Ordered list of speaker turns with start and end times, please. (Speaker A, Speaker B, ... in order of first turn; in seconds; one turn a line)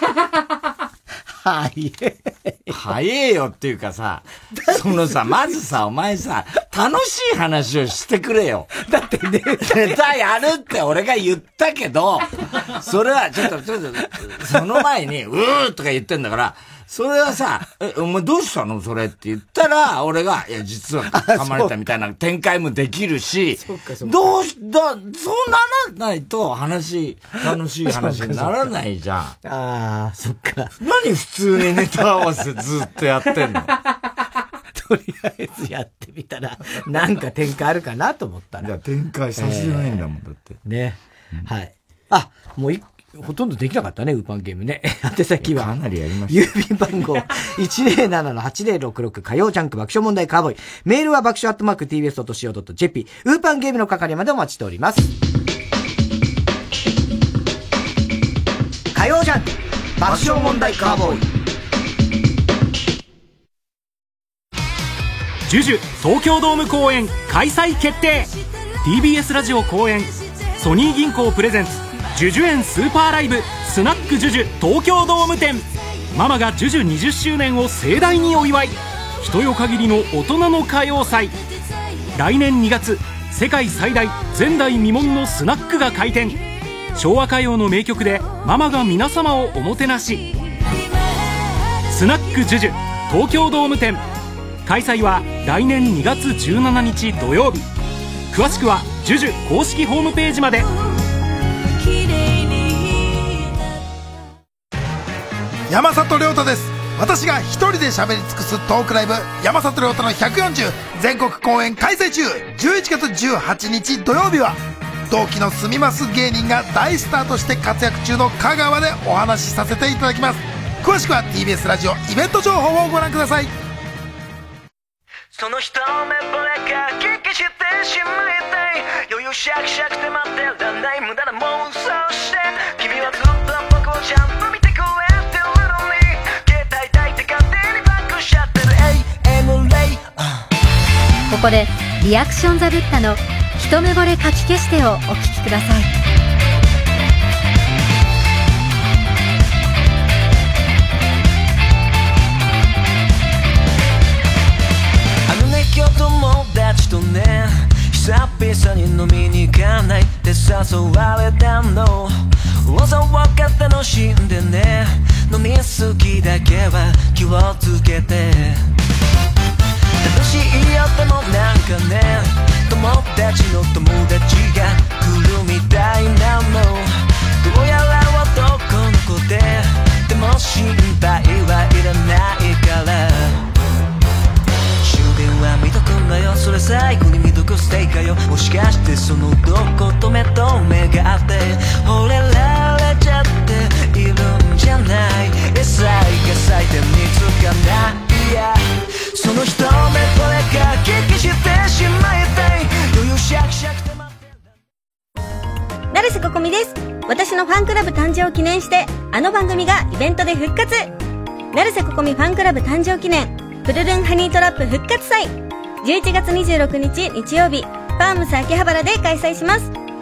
Speaker A: 1.3-2.8
Speaker B: 2.7-8.7
Speaker A: 4.6-5.3
Speaker A: 8.8-10.1
Speaker B: 9.6-29.3
Speaker A: 21.1-21.7
Speaker A: 23.6-24.4
Speaker A: 27.5-28.7
Speaker A: 29.4-30.7
Speaker B: 30.8-33.7
Speaker A: 34.7-38.7
Speaker B: 38.6-40.6
Speaker A: 39.4-40.0
Speaker A: 40.6-45.7
Speaker B: 45.4-46.5
Speaker A: 46.3-55.1
Speaker A: 58.9-61.2
Speaker C: 65.5-68.3
Speaker C: 68.8-81.3
Speaker C: 82.1-86.4
Speaker C: 86.9-90.3
Speaker C: 91.9-94.0
Speaker C: 94.7-97.7
Speaker C: 98.3-100.7
Speaker D: 105.7-114.6
Speaker D: 115.1-123.5
Speaker E: 125.3-140.4
Speaker F: 141.3-145.9
Speaker E: 155.3-168.7
Speaker E: 170.0-183.4
Speaker E: 184.8-204.1
Speaker G: 205.9-210.9
Speaker G: 211.5-219.7